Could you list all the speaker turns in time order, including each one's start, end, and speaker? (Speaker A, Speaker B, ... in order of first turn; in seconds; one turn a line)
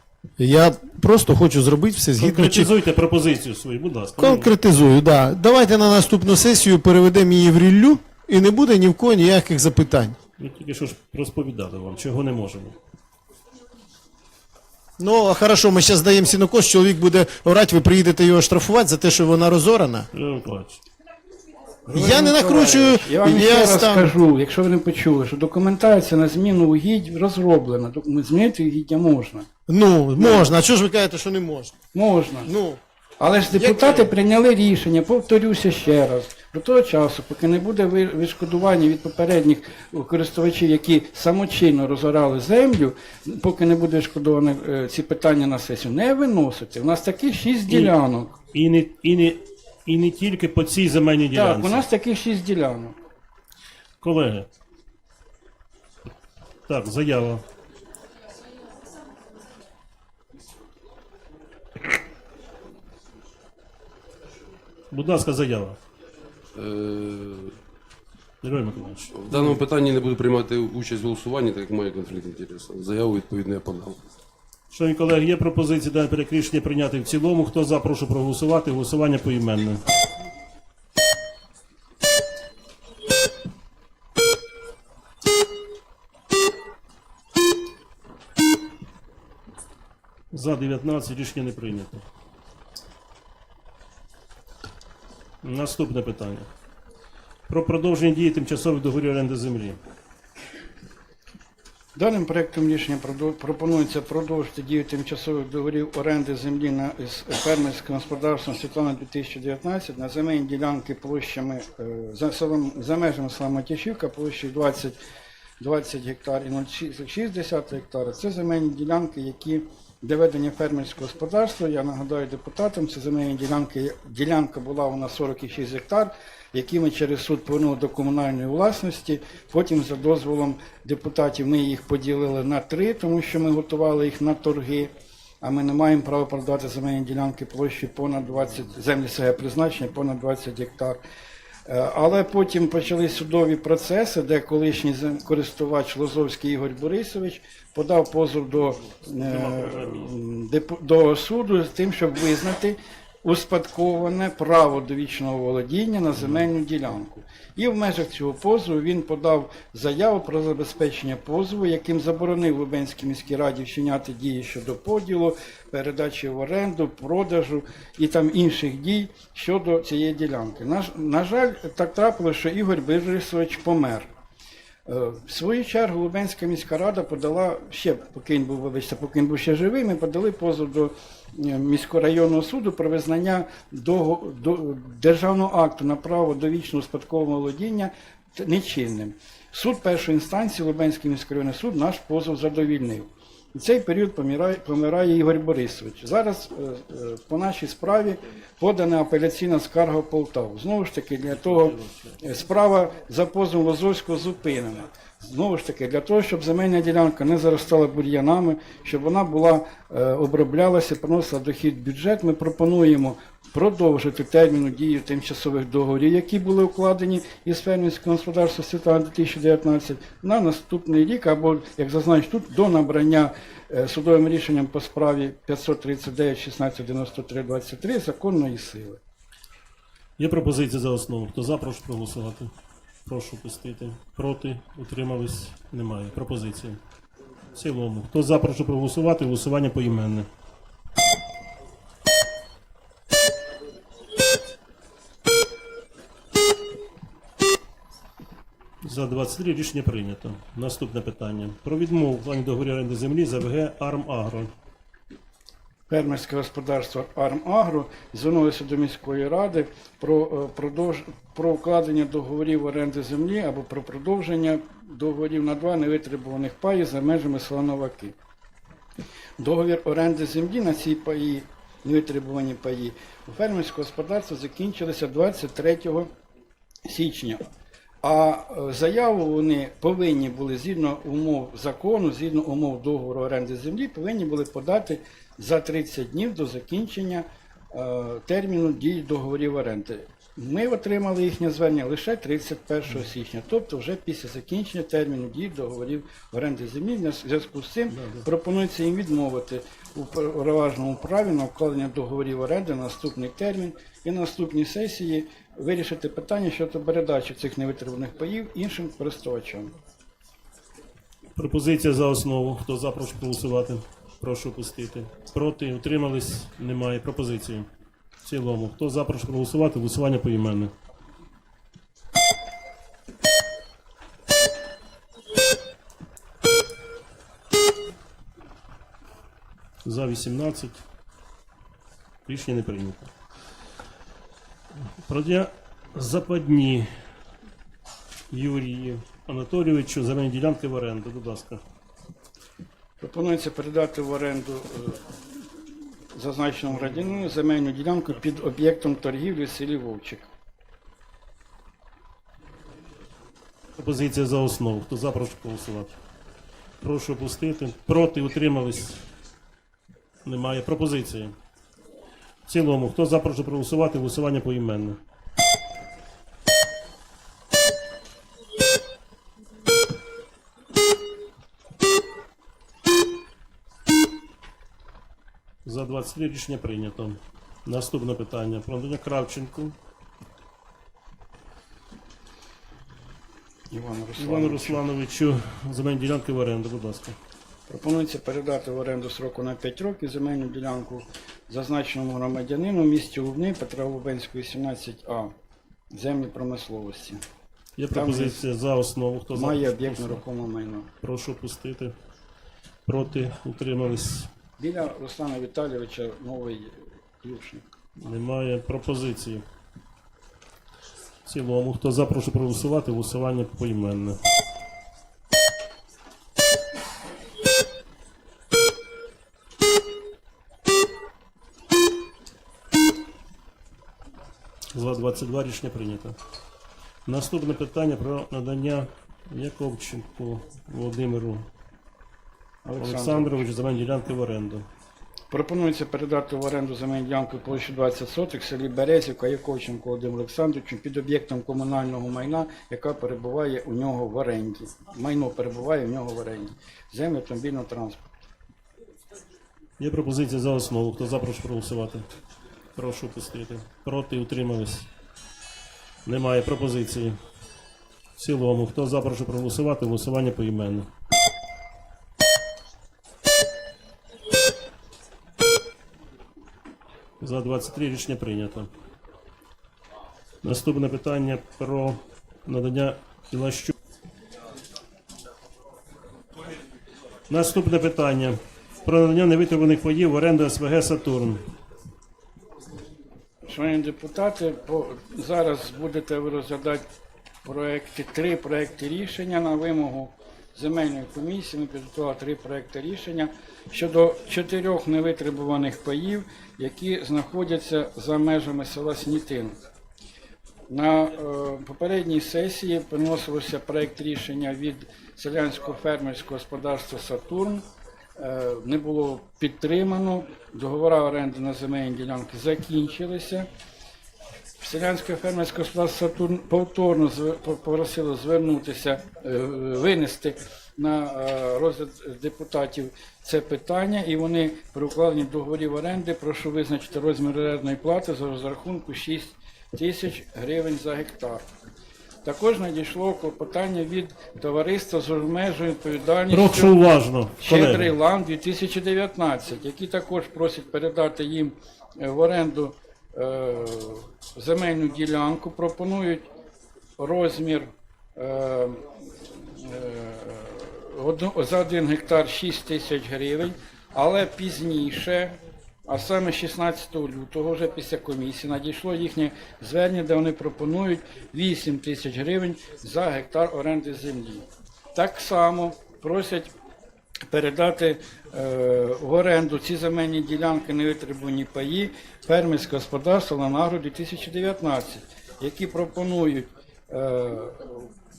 Speaker A: 0.4-2.7
Speaker B: 2.2-4.5
Speaker A: 4.2-10.2
Speaker B: 10.4-12.8
Speaker A: 15.0-20.1
Speaker B: 20.1-20.8
Speaker C: 21.9-29.5
Speaker A: 21.9-24.1
Speaker A: 29.7-31.7
Speaker C: 30.2-30.5
Speaker C: 31.9-32.5
Speaker A: 32.5-32.8
Speaker C: 33.2-48.4
Speaker A: 33.5-34.1
Speaker B: 48.5-51.9
Speaker C: 51.3-53.0
Speaker B: 54.0-54.5
Speaker B: 56.7-57.4
Speaker B: 64.9-65.8
Speaker D: 66.5-67.6
Speaker B: 68.4-69.5
Speaker D: 69.1-74.0
Speaker B: 74.7-79.8
Speaker B: 90.3-92.0
Speaker B: 95.4-96.5
Speaker B: 97.5-99.8
Speaker C: 102.0-115.0
Speaker C: 115.6-141.0
Speaker C: 141.7-174.1
Speaker B: 149.2-150.1
Speaker B: 156.2-156.5
Speaker C: 174.9-229.0
Speaker B: 201.3-202.2
Speaker B: 230.2-232.5
Speaker B: 233.1-236.8
Speaker B: 237.6-240.3
Speaker B: 248.8-254.5
Speaker C: 255.9-268.1
Speaker C: 269.4-276.1
Speaker C: 276.9-277.4
Speaker C: 278.0-309.7
Speaker B: 297.9-298.3
Speaker B: 311.4-317.7
Speaker B: 318.2-320.7
Speaker B: 329.9-330.8
Speaker B: 332.3-333.1
Speaker B: 335.0-336.9
Speaker B: 338.3-341.6
Speaker C: 343.0-345.1
Speaker C: 346.1-350.3
Speaker B: 353.8-356.0
Speaker B: 356.8-359.1
Speaker B: 360.2-361.3
Speaker B: 362.5-365.0
Speaker B: 375.6-379.8
Speaker C: 383.7-384.8
Speaker B: 384.2-387.2
Speaker C: 387.7-395.3
Speaker C: 395.9-397.2
Speaker B: 397.8-400.2
Speaker C: 397.9-398.4
Speaker C: 399.3-400.9
Speaker B: 401.0-401.9
Speaker B: 402.9-404.3
Speaker C: 404.6-407.7
Speaker B: 408.0-409.4
Speaker B: 411.3-414.2
Speaker B: 424.7-426.2
Speaker B: 427.1-431.5
Speaker C: 432.6-433.4
Speaker B: 432.8-434.7
Speaker C: 435.3-448.1
Speaker B: 449.8-452.1
Speaker B: 452.8-454.9
Speaker B: 456.1-457.2
Speaker B: 458.2-460.9
Speaker B: 467.2-468.7
Speaker B: 470.4-473.7
Speaker B: 477.3-481.4
Speaker C: 483.5-486.9
Speaker C: 487.4-499.6
Speaker C: 500.7-507.7
Speaker C: 508.2-513.5
Speaker C: 514.6-531.4
Speaker C: 532.2-536.7
Speaker B: 536.3-537.9
Speaker C: 537.4-546.3
Speaker C: 547.0-566.5
Speaker C: 567.3-577.9